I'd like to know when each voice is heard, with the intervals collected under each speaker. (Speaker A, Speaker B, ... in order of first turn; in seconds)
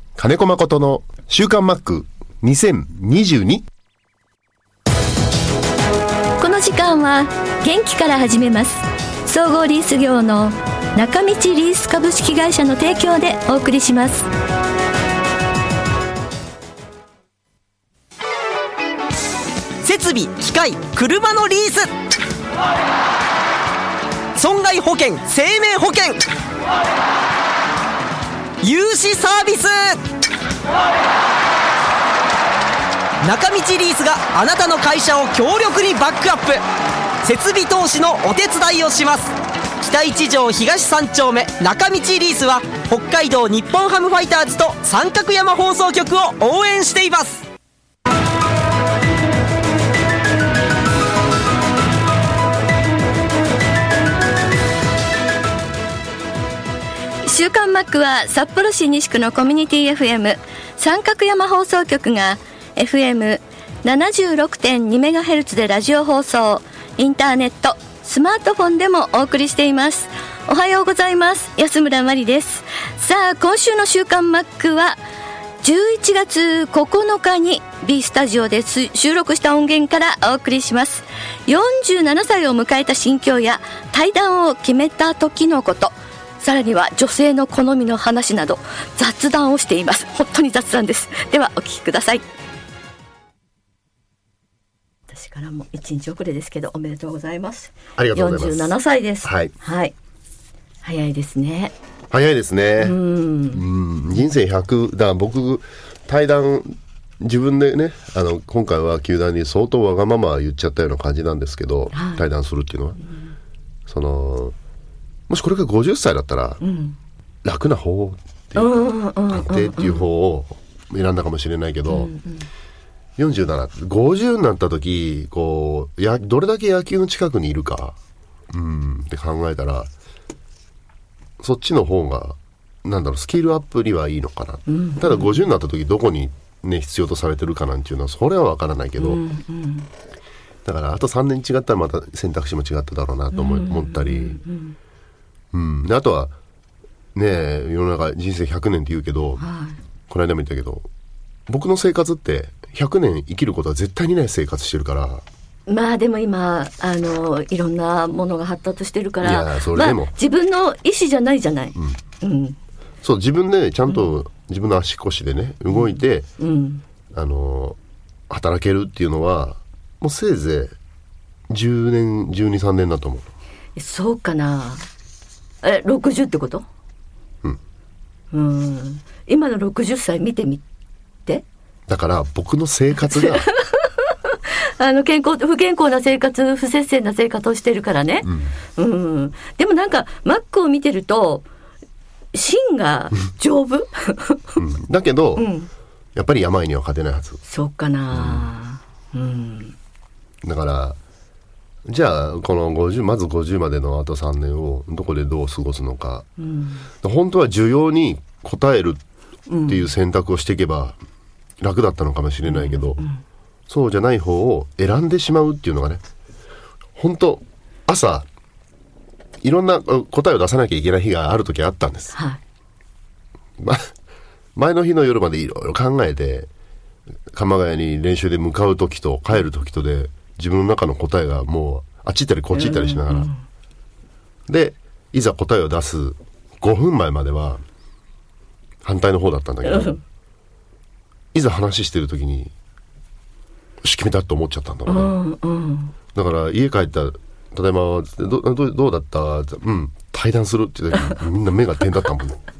Speaker A: 0.1-3.6, 98.0-99.5, 102.1-103.0, 103.5-113.0, 113.9-114.5, 115.3-116.6, 117.4-122.1, 123.2-128.0, 128.5-129.9, 131.4-139.2, 140.6-144.4, 145.5-146.3, 147.1-149.4, 150.1-150.8, 151.5-155.2, 159.2-160.1, 161.8-162.0, 163.0-166.3, 167.1-167.8, 168.3-170.7, 171.5-173.2, 181.9-183.5, 188.2-188.5, 194.6-195.5, 196.1-197.4, 198.1-198.5, 200.4-201.0, 201.8-206.2, 207.0-209.0, 209.6-211.0, 211.6-213.0, 213.7-216.0, 217.0-218.2, 219.4-222.2, 223.6-223.9, 224.6-226.5, 227.3-233.3, 234.5-237.6, 238.8-240.0, 241.3-242.5, 243.8-245.1, 246.1-252.4
Speaker B: 6.4-14.3, 57.2-75.0, 75.6-92.2, 95.1-99.9, 100.8-101.7, 102.8-103.6, 111.9-112.2, 116.6-117.0, 118.5-120.0, 121.9-122.5, 134.7-135.4, 139.0-139.9, 143.3-144.8, 149.4-149.8, 155.7-162.6, 165.7-166.8, 173.8-174.9, 175.6-176.6, 178.3-180.6, 183.1-191.4, 192.3-194.6, 195.4-195.7, 197.5-199.7, 206.4-206.9, 209.5-209.9, 212.4-213.2, 232.5-233.4, 239.6-240.0, 244.8-245.9
Speaker C: 19.8-21.9, 24.3-26.2, 28.6-30.0, 33.2-36.6, 37.2-47.5